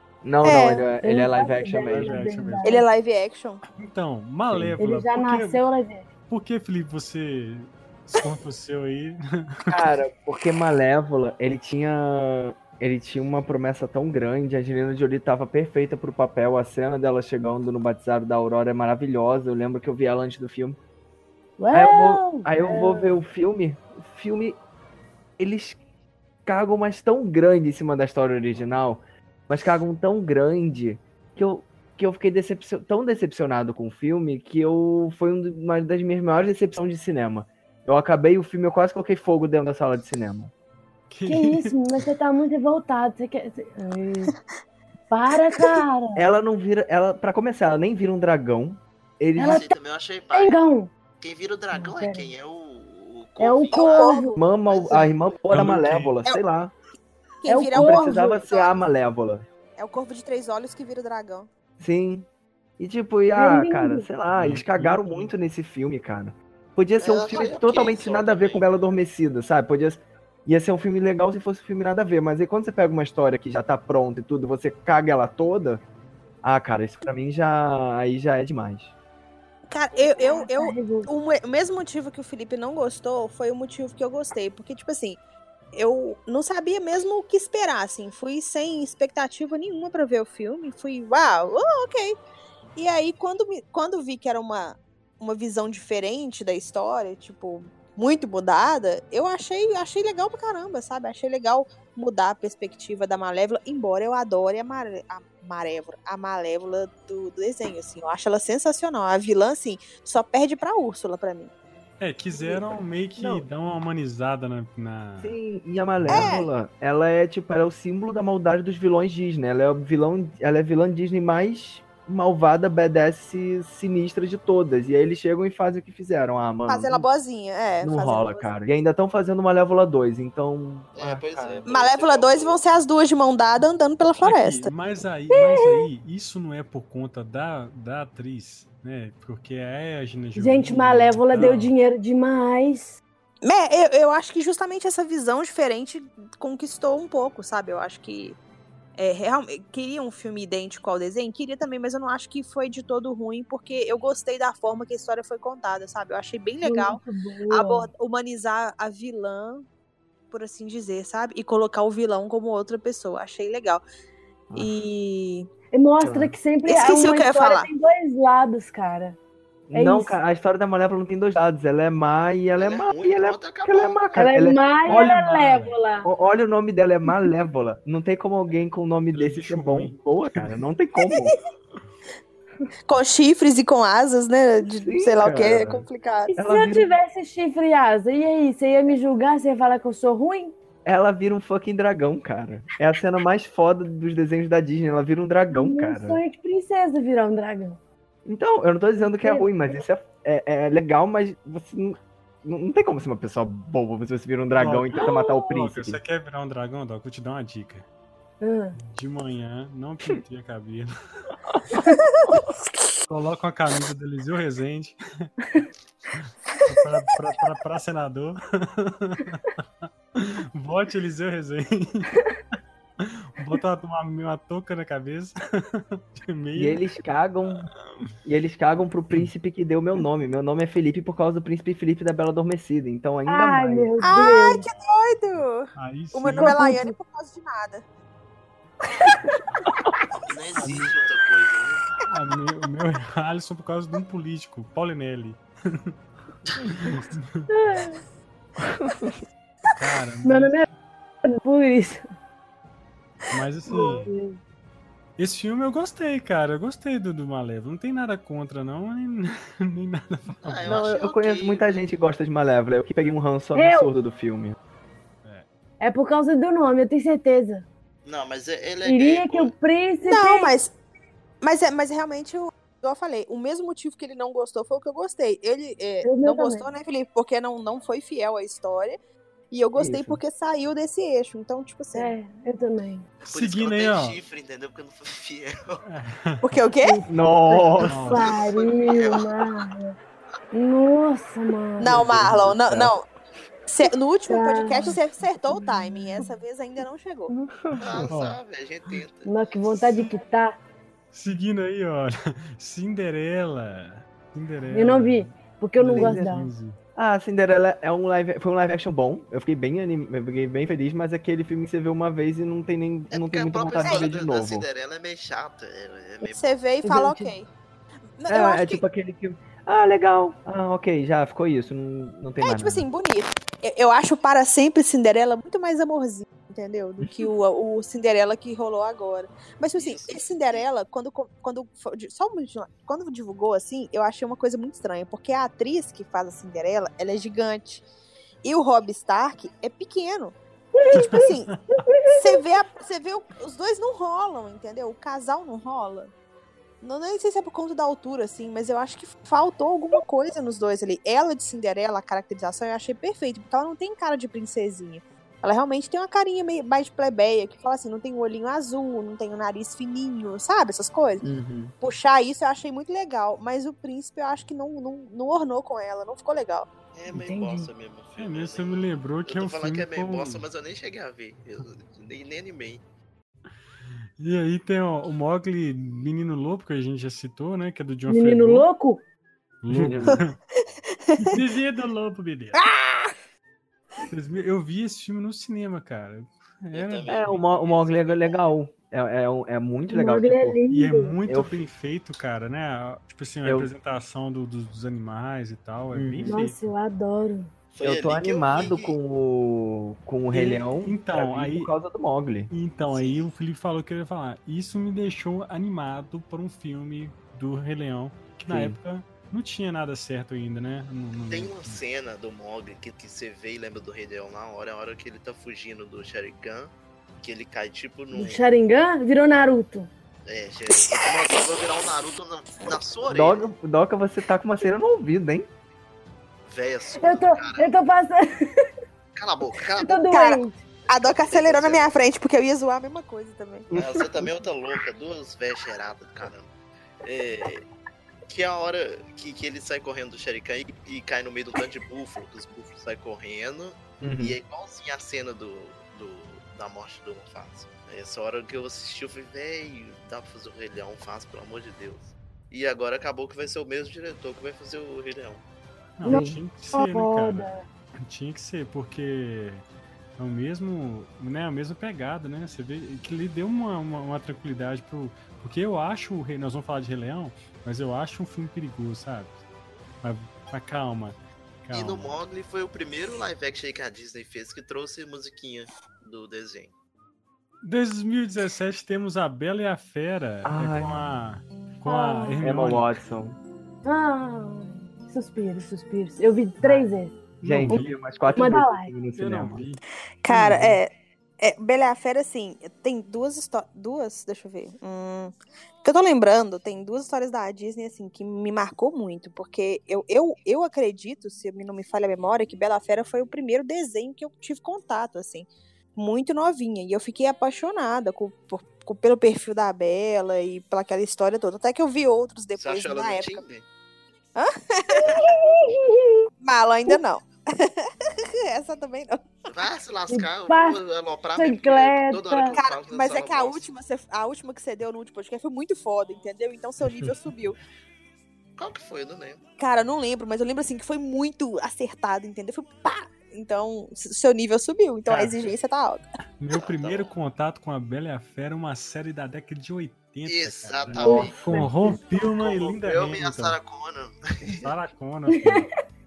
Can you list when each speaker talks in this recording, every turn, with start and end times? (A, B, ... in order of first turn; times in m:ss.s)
0:00.2-0:02.3 A
0:00.4-0:00.8 B
0:01.0-0:02.8 C
0:01.8-0:02.7 D
0:02.6-0:03.6 B
0:03.8-0:05.6 D
0:04.5-0:04.8 A
0:04.8-0:06.1 C
0:06.3-0:09.8 D
0:09.7-0:20.8 A
0:21.6-0:23.1 C
0:21.7-0:24.6 A
0:25.4-0:25.8 A
0:26.4-0:40.5 A
0:41.1-0:41.7 D
0:41.3-0:44.3 C
0:45.1-0:46.2 C
0:46.1-0:49.6 A
0:49.4-0:49.7 C
0:49.4-0:50.6 E
0:50.3-0:50.9 C
0:51.2-0:54.2 E
0:51.7-0:52.3 C
0:53.4-0:54.4 C
0:53.7-0:54.2 B
0:54.3-0:56.7 A
0:54.7-0:55.1 E
0:55.5-0:56.2 D
0:57.4-0:58.8 B
0:57.5-0:58.4 C
0:57.7-0:59.4 A
0:59.8-1:01.5 B
1:01.8-1:02.3 A
1:02.8-1:15.8 A
1:03.3-1:04.0 C
1:04.4-1:05.3 D
1:07.0-1:08.7 E
1:16.4-1:18.9 A
1:19.7-1:25.2 B
1:20.2-1:21.1 C
1:25.7-1:32.2 B
1:32.8-1:51.5 B
1:52.0-1:55.3 D
1:52.3-1:53.4 A
1:55.2-2:07.0 A
1:56.1-1:56.3 D
1:56.1-1:56.5 B
2:06.7-2:08.5 B
2:07.8-2:11.6 A
2:10.9-2:12.6 E
2:11.6-2:14.7 B
2:14.2-2:21.7 D
2:15.3-2:15.8 C
2:20.4-2:23.0 C
2:23.4-2:28.4 B
2:29.0-2:39.6 B
2:36.6-2:37.9 C
2:40.3-2:43.8 B
2:44.5-2:45.5 B
2:45.7-2:49.2 C
2:46.0-2:46.3 A
2:46.6-2:47.7 B
2:49.7-2:55.2 A
2:49.7-2:50.2 C
2:52.6-2:54.1 E
2:54.1-2:56.1 C
2:54.8-2:55.8 D
2:56.0-3:01.4 A
2:59.1-3:00.6 D
3:02.9-3:06.3 B
3:04.8-3:06.9 A
3:06.3-3:10.5 C
3:10.8-3:16.2 A
3:15.5-3:17.8 C
3:18.2-3:26.0 A
3:19.2-3:19.5 C
3:24.6-3:27.8 D
3:25.0-3:25.5 C
3:28.4-3:28.8 C
3:28.8-3:30.9 D
3:33.1-3:35.3 D
3:36.1-3:39.5 D
3:40.1-3:42.2 D
3:43.0-3:46.8 D
3:46.5-3:47.7 A
3:48.2-3:54.0 A
3:53.3-3:54.6 C
3:54.0-3:57.8 B
3:55.8-3:56.6 D
3:56.3-3:56.9 C
4:00.2-4:01.8 E
4:00.6-4:00.9 D
4:02.1-4:05.9 D
4:06.6-4:07.5 D
4:07.5-4:08.0 C
4:08.8-4:09.1 A
4:09.8-4:10.6 D
4:10.2-4:10.6 C
4:11.2-4:12.0 C
4:13.3-4:14.1 D
4:13.7-4:14.4 C
4:15.2-4:20.8 D
4:20.4-4:21.7 E
4:20.6-4:24.6 A
4:23.5-4:23.9 C
4:25.8-4:27.6 C
4:28.0-4:29.5 E
4:28.8-4:30.5 C
4:30.0-4:30.7 B
4:31.4-4:39.0 B
4:36.0-4:36.7 C
4:39.5-4:42.1 B
4:39.8-4:40.2 A
4:41.9-4:43.0 C
4:43.2-4:45.8 E
4:43.3-4:44.2 D
4:45.8-4:46.4 D
4:46.4-4:47.0 B
4:46.8-4:49.9 C
4:47.1-4:48.1 A
4:47.9-4:48.3 D
4:48.2-4:49.6 E
4:50.5-4:52.0 C
4:51.8-4:53.1 B
4:51.9-4:52.9 A
4:53.7-4:57.3 B
4:54.3-4:54.9 C
4:57.3-4:58.1 A
4:57.8-5:00.0 E
4:58.1-4:58.4 D
4:59.2-5:00.6 C
5:01.1-5:06.8 D
5:04.7-5:06.5 C
5:05.9-5:06.3 A
5:07.0-5:14.6 A
5:13.1-5:16.5 E
5:13.8-5:14.1 B
5:16.2-5:17.5 B
5:16.8-5:17.3 C
5:18.2-5:18.8 B
5:18.3-5:22.8 A
5:22.4-5:37.8 B
5:27.0-5:27.3 A
5:29.7-5:30.6 E
5:38.4-5:40.4 B
5:40.7-5:42.4 C
5:40.9-5:41.5 B
5:40.9-5:41.6 D
5:42.2-5:46.1 B
5:46.8-6:01.2 B
6:01.2-6:01.7 A
6:01.8-6:06.7 B
6:06.9-6:12.8 E
6:07.1-6:07.7 C
6:08.2-6:10.4 D
6:14.2-6:18.7 D
6:18.1-6:19.0 C
6:19.6-6:20.4 D
6:19.7-6:20.2 A
6:21.2-6:22.6 D
6:22.6-6:23.1 B
6:24.0-6:27.4 D
6:26.7-6:28.4 E
6:27.1-6:30.6 A
6:29.9-6:31.1 C
6:30.7-6:36.6 D
6:31.3-6:31.6 A
6:33.4-6:33.7 A
6:35.9-6:36.4 A
6:36.3-6:37.5 C
6:37.7-6:39.0 E
6:37.8-6:42.5 A
6:40.3-6:41.7 D
6:42.5-6:51.8 D
6:42.9-6:43.3 E
6:48.5-6:48.8 A
6:51.2-6:58.4 E
6:58.1-6:59.9 C
7:00.2-7:03.4 E
7:03.1-7:05.5 A
7:06.4-7:07.7 E
7:07.0-7:08.7 C
7:09.1-7:10.1 E
7:09.7-7:10.6 C
7:10.1-7:13.7 B
7:11.0-7:11.9 E
7:13.7-7:14.3 A
7:13.7-7:16.5 E
7:17.0-7:17.6 E
7:18.3-7:35.4 E
7:24.0-7:24.4 A
7:36.0-7:39.6 D
7:36.0-7:36.4 A
7:36.0-7:37.6 C
7:40.2-7:49.4 D
7:50.0-7:52.2 D
7:51.7-7:56.7 E
7:57.6-8:02.9 D
8:00.4-8:01.1 A
8:01.8-8:02.4 C
8:02.4-8:03.4 A
8:03.8-8:07.1 C
8:07.4-8:08.0 D
8:07.4-8:09.6 A
8:08.4-8:08.9 C
8:09.2-8:10.8 D
8:10.2-8:33.4 B
8:32.6-8:33.6 E
8:34.3-8:35.3 B
8:35.0-8:36.3 C
8:36.4-8:39.3 B
8:39.5-8:43.6 E
8:40.1-8:40.8 C
8:41.4-8:42.6 C
8:42.6-8:47.6 B
8:48.6-8:49.4 E
8:49.6-8:56.0 B
8:55.1-8:55.4 D
8:56.4-9:03.6 D
8:56.6-8:57.1 E
9:00.2-9:01.4 E
9:01.0-9:02.0 C
9:02.2-9:04.7 E
9:04.6-9:05.7 D